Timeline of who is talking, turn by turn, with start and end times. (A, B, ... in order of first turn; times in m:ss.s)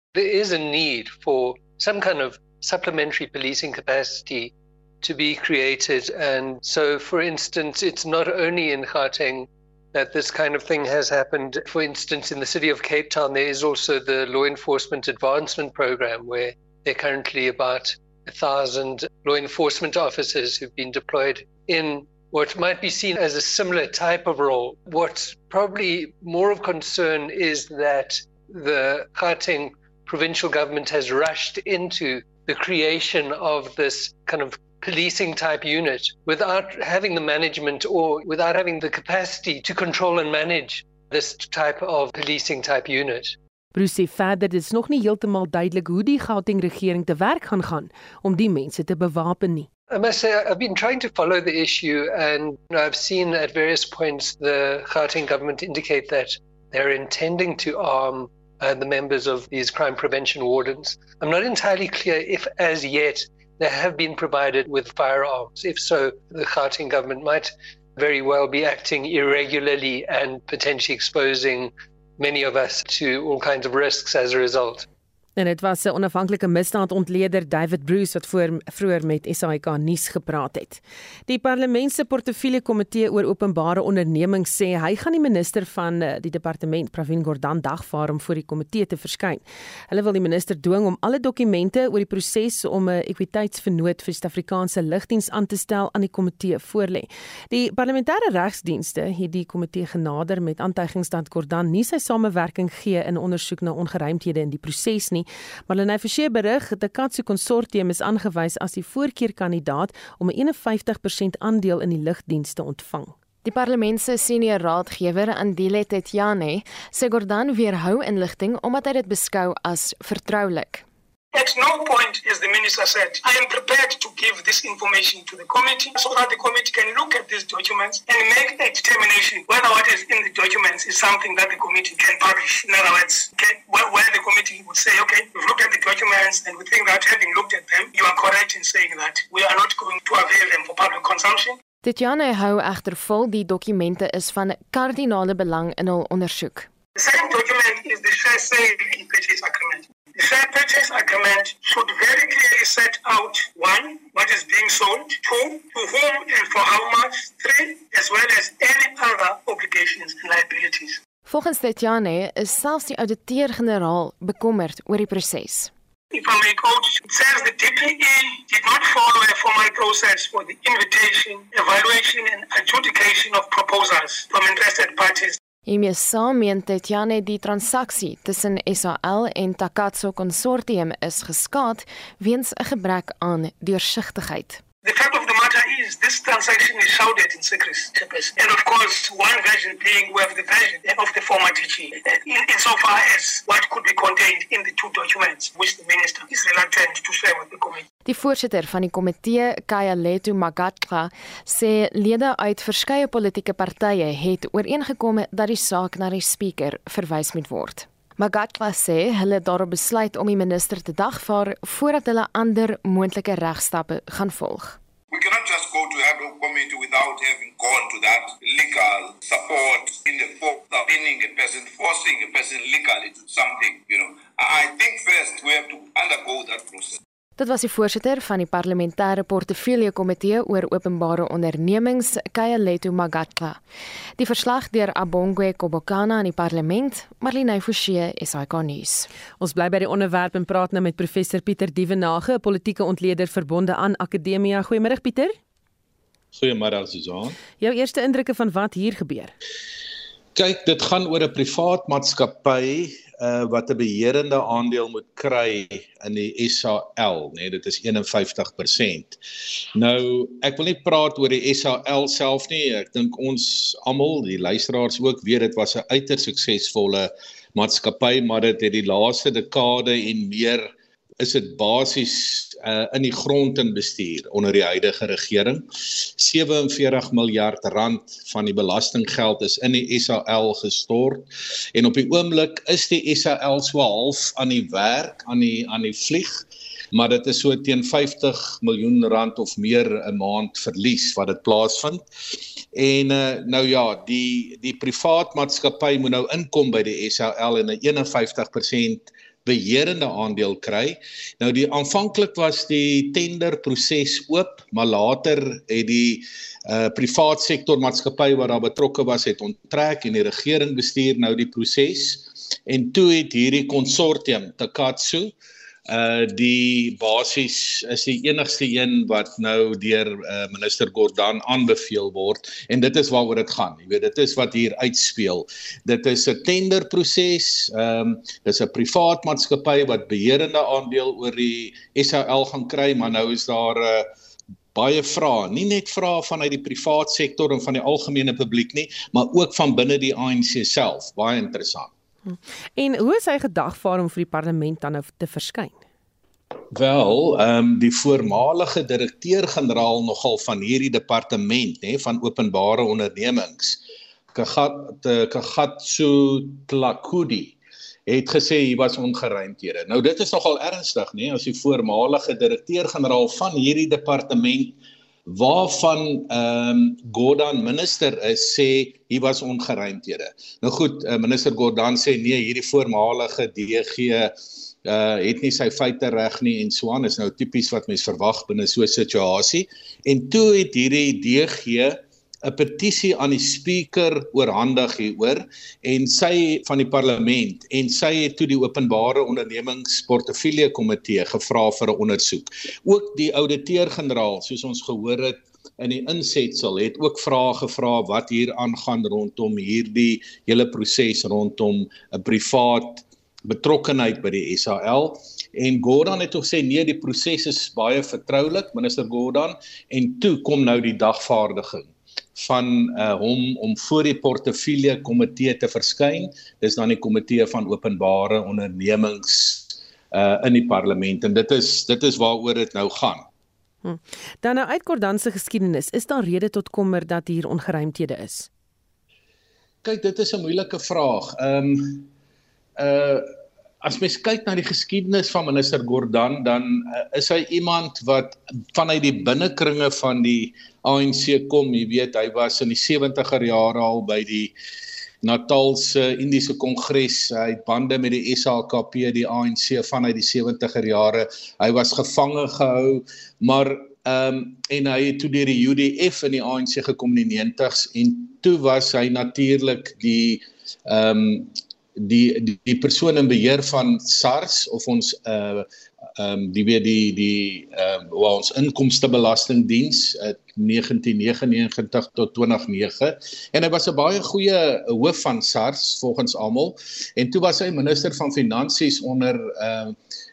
0:00.1-0:43.3 A
0:43.7-0:49.7 B
0:49.9-1:14.8 A
1:15.4-1:53.1 B
1:53.4-2:00.8 C
2:01.3-2:21.6 D
2:21.8-2:26.7 C
2:27.0-2:41.0 D
2:41.2-2:45.7 C
2:46.1-2:55.4 D
2:55.6-3:04.6 C
3:04.8-3:17.8 D
3:18.0-3:34.8 C
3:35.1-3:47.0 E
3:47.4-3:53.6 C
3:54.2-3:59.1 C
3:59.4-4:05.4 B
4:06.3-4:07.4 F
4:07.6-4:09.3 B
4:10.3-4:19.2 F
4:19.7-4:52.0 F
4:52.7-5:15.3 F
5:15.9-5:34.1 F
5:34.7-5:41.9 F
5:42.3-5:45.8 B
5:46.7-5:53.8 F
5:54.3-5:57.6 F
5:58.1-7:03.3 F
7:03.8-7:08.5 B
7:09.8-7:12.1 F
7:12.8-7:13.3 F
7:13.8-7:24.5 F
7:25.2-8:00.0 F